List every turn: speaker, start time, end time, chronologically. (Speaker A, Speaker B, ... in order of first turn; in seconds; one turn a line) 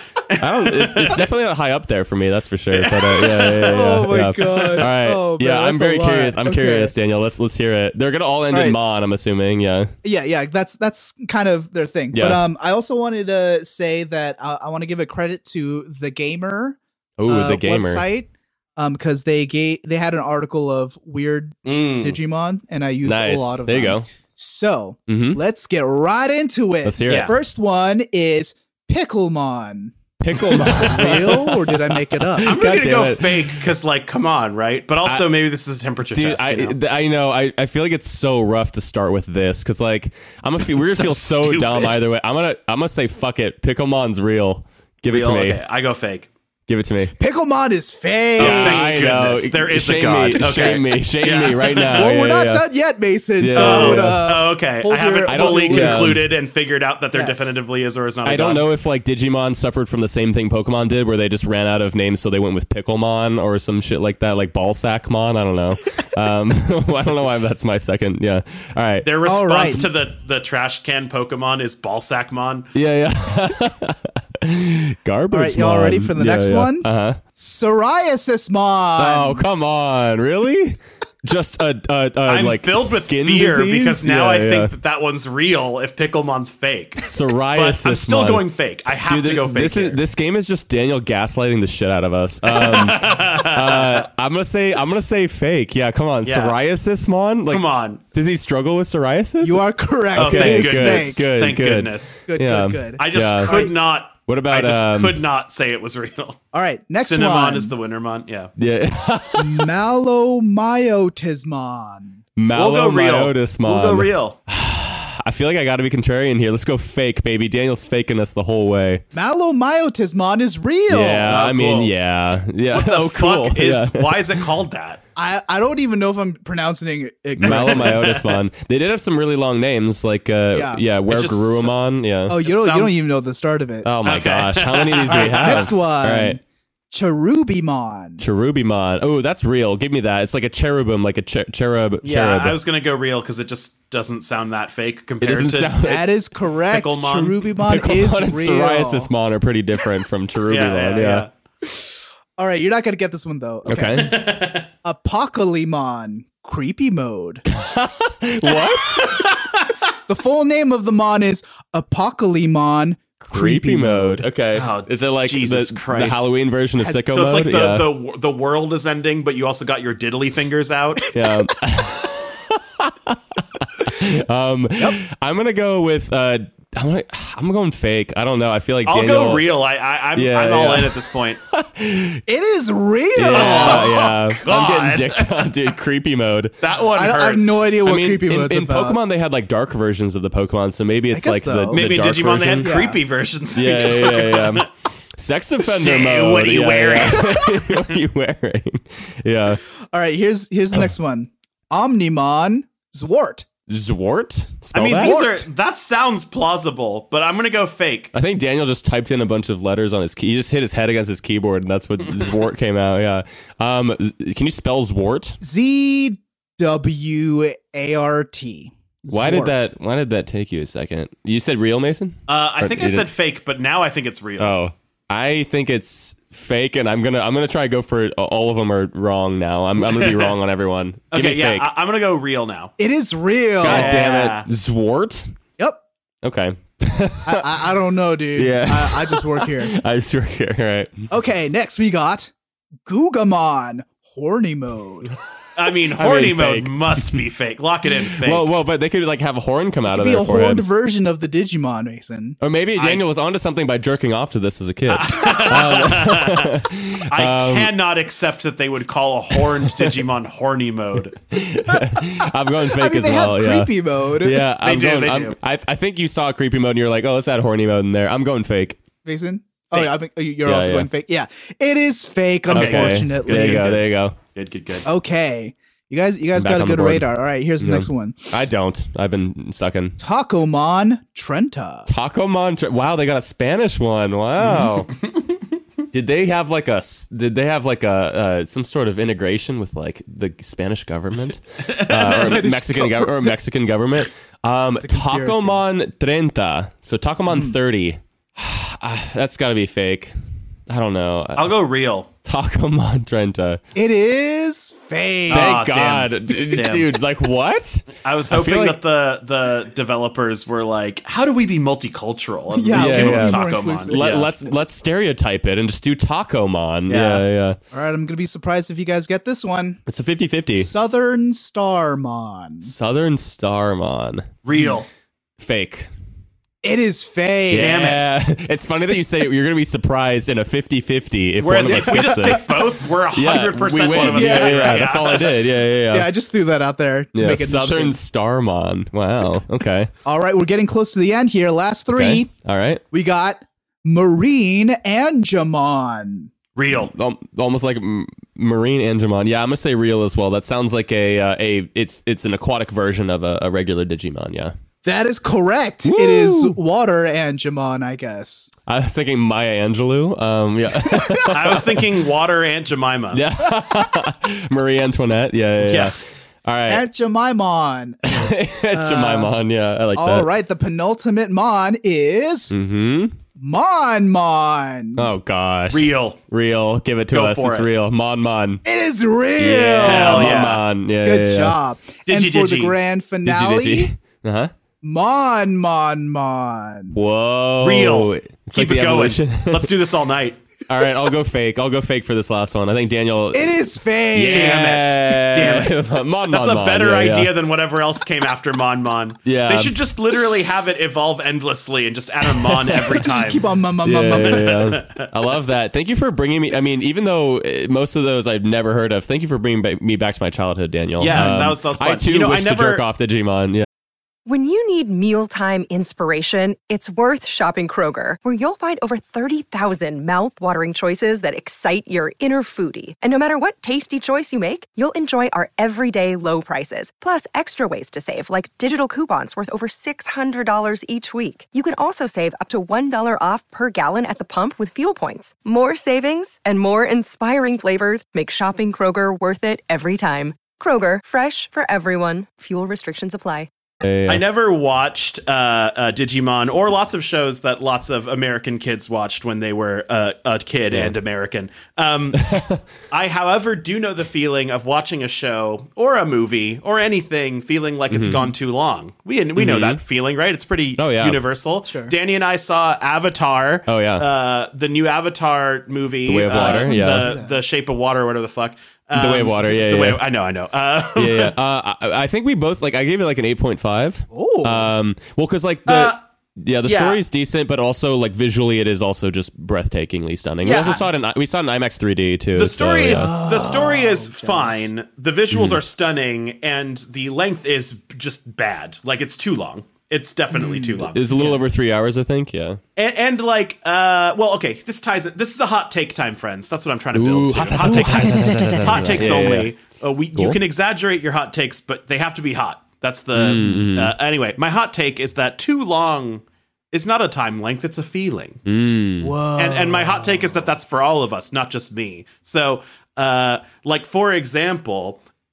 Speaker A: 0.2-1.3
Speaker B: 0.4-9.9
Speaker A: 2.7-3.6
Speaker C: 3.5-6.9
Speaker A: 4.5-4.8
Speaker C: 8.5-9.0
Speaker C: 10.0-32.5
Speaker B: 12.1-12.4
Speaker B: 17.2-18.0
Speaker A: 21.6-22.2
Speaker B: 23.0-24.1
Speaker B: 25.1-25.4
Speaker B: 26.8-27.3
Speaker A: 27.1-27.3
Speaker B: 30.2-33.7
Speaker A: 32.5-36.8
Speaker B: 36.1-45.6
Speaker A: 40.8-42.0
Speaker A: 45.1-46.3
Speaker B: 46.7-47.1
Speaker C: 47.2-49.2
Speaker B: 48.4-52.6
Speaker A: 48.4-52.1
Speaker C: 51.8-56.2
Speaker B: 53.4-54.2
Speaker A: 53.5-58.7
Speaker B: 55.2-56.3
Speaker C: 57.1-57.5
Speaker B: 58.2-69.1
Speaker A: 69.0-72.7
Speaker C: 69.2-69.9
Speaker B: 72.7-77.2
Speaker C: 75.3-79.5
Speaker B: 79.0-84.7
Speaker A: 82.2-90.0
Speaker B: 87.0-88.5
Speaker B: 89.1-99.6
Speaker A: 92.4-94.0
Speaker A: 96.2-96.6
Speaker A: 97.5-98.0
Speaker C: 99.4-101.2
Speaker B: 100.1-103.7
Speaker A: 100.2-102.3
Speaker C: 102.3-103.7
Speaker A: 103.0-106.4
Speaker B: 104.2-105.2
Speaker C: 106.5-107.7
Speaker A: 107.0-108.5
Speaker B: 108.6-109.7
Speaker C: 109.3-112.2
Speaker B: 112.3-119.0
Speaker A: 112.5-114.4
Speaker C: 119.1-121.3
Speaker B: 120.9-124.4
Speaker A: 121.2-121.9
Speaker A: 122.7-125.0
Speaker C: 125.2-128.0
Speaker B: 127.4-132.4
Speaker A: 127.4-128.4
Speaker C: 130.5-130.8
Speaker A: 131.1-131.7
Speaker C: 132.3-133.9
Speaker A: 132.4-132.9
Speaker B: 133.8-136.4
Speaker A: 134.0-135.7
Speaker C: 135.1-138.2
Speaker B: 138.2-142.6
Speaker A: 142.0-145.7
Speaker B: 145.2-146.1
Speaker C: 145.8-149.1
Speaker A: 146.7-147.4
Speaker B: 147.6-151.3
Speaker A: 150.5-151.3
Speaker C: 152.4-157.4
Speaker B: 153.7-154.1
Speaker A: 153.9-154.7
Speaker B: 157.5-159.2
Speaker A: 158.9-159.7
Speaker C: 160.1-164.2
Speaker B: 163.2-167.9
Speaker A: 164.5-166.3
Speaker C: 166.8-167.1
Speaker A: 167.1-171.1
Speaker B: 171.1-179.4
Speaker A: 178.8-181.4
Speaker B: 180.2-181.0
Speaker B: 181.5-182.2
Speaker C: 182.3-183.9
Speaker B: 183.1-186.6
Speaker A: 183.3-185.5
Speaker A: 186.6-187.7
Speaker C: 186.9-189.0
Speaker B: 187.8-192.8
Speaker C: 191.1-191.9
Speaker A: 191.7-194.7
Speaker C: 192.6-193.0
Speaker B: 193.5-199.6
Speaker A: 195.8-197.9
Speaker C: 199.9-203.5
Speaker B: 203.7-205.2
Speaker A: 204.7-208.1
Speaker C: 204.8-205.4
Speaker B: 208.1-215.4
Speaker C: 215.4-219.7
Speaker B: 219.1-223.1
Speaker A: 222.3-224.6
Speaker B: 224.4-231.7
Speaker A: 229.9-230.3
Speaker A: 231.1-232.7
Speaker C: 232.8-234.0
Speaker A: 233.6-234.5
Speaker B: 233.6-235.3
Speaker B: 236.2-237.7
Speaker C: 237.2-239.8
Speaker B: 238.3-241.0
Speaker C: 241.1-242.3
Speaker C: 242.8-245.1
Speaker A: 245.6-248.5
Speaker B: 245.9-247.2
Speaker B: 248.0-250.6
Speaker C: 249.8-252.4
Speaker B: 252.4-257.7
Speaker A: 252.8-253.0
Speaker A: 254.9-256.6
Speaker A: 257.1-261.2
Speaker B: 259.3-260.0
Speaker B: 261.3-268.8
Speaker C: 261.7-262.1
Speaker C: 262.6-264.5
Speaker A: 264.6-265.4
Speaker C: 269.0-273.8
Speaker B: 270.4-270.9
Speaker A: 272.5-273.8
Speaker B: 272.5-274.1
Speaker A: 274.3-274.8
Speaker C: 274.8-278.3
Speaker B: 276.3-280.0
Speaker C: 280.0-281.9
Speaker B: 281.9-284.9
Speaker B: 285.9-300.1
Speaker A: 291.7-292.4
Speaker C: 291.9-293.3
Speaker C: 294.8-295.6
Speaker B: 300.7-301.6
Speaker A: 301.4-302.1
Speaker B: 302.2-303.6
Speaker C: 303.7-305.6
Speaker A: 305.3-306.9
Speaker B: 305.3-308.8
Speaker A: 308.0-314.2
Speaker C: 312.5-314.5
Speaker B: 312.7-317.6
Speaker C: 316.9-319.8
Speaker B: 319.9-320.7
Speaker C: 320.5-322.7
Speaker B: 322.6-324.3
Speaker A: 324.4-324.9
Speaker B: 325.4-325.9
Speaker C: 326.6-327.9
Speaker B: 327.5-336.1
Speaker A: 327.5-328.1
Speaker A: 331.4-335.4
Speaker C: 331.7-332.4
Speaker C: 333.9-334.9
Speaker C: 335.9-338.0
Speaker B: 337.1-339.9
Speaker C: 340.0-342.3
Speaker B: 341.9-342.8
Speaker C: 342.9-346.3
Speaker A: 346.6-346.9
Speaker B: 346.7-354.5
Speaker C: 354.8-358.5
Speaker B: 355.8-356.6
Speaker B: 358.7-362.0
Speaker C: 360.9-361.2
Speaker A: 361.2-363.2
Speaker B: 363.1-366.9
Speaker A: 365.6-365.9
Speaker C: 366.7-369.4
Speaker B: 368.1-370.3
Speaker C: 369.9-372.5
Speaker B: 372.5-373.2
Speaker C: 373.4-375.1
Speaker B: 374.9-378.6
Speaker A: 375.7-376.2
Speaker A: 377.1-377.7
Speaker C: 378.6-383.9
Speaker B: 379.4-381.6
Speaker A: 379.8-380.6
Speaker A: 382.1-382.8
Speaker B: 383.2-384.5
Speaker C: 384.8-387.0
Speaker B: 386.9-389.8
Speaker A: 387.6-390.4
Speaker B: 390.7-397.3
Speaker C: 393.3-394.6
Speaker A: 394.1-403.5
Speaker B: 399.2-399.7
Speaker B: 402.3-403.2
Speaker C: 402.9-404.5
Speaker B: 403.8-413.6
Speaker A: 404.1-405.1
Speaker A: 411.0-412.8
Speaker D: 414.2-443.5
Speaker B: 443.8-444.2
Speaker A: 444.1-471.3
Speaker B: 452.1-452.6
Speaker B: 457.9-458.2
Speaker B: 459.4-459.8
Speaker B: 460.8-461.2
Speaker C: 461.6-461.9
Speaker B: 463.7-464.1
Speaker B: 466.1-467.1
Speaker C: 466.3-467.4
Speaker B: 468.9-470.0
Speaker B: 470.9-483.2
Speaker C: 474.1-474.7
Speaker A: 475.7-476.0
Speaker A: 476.6-477.0
Speaker A: 480.4-480.8
Speaker A: 482.3-491.4
Speaker C: 482.9-484.7
Speaker B: 485.3-485.6
Speaker C: 490.3-490.8
Speaker B: 490.8-492.6
Speaker A: 492.8-508.4
Speaker B: 496.9-499.5
Speaker B: 503.1-503.9
Speaker B: 508.4-509.1
Speaker C: 509.0-510.4
Speaker A: 509.4-515.0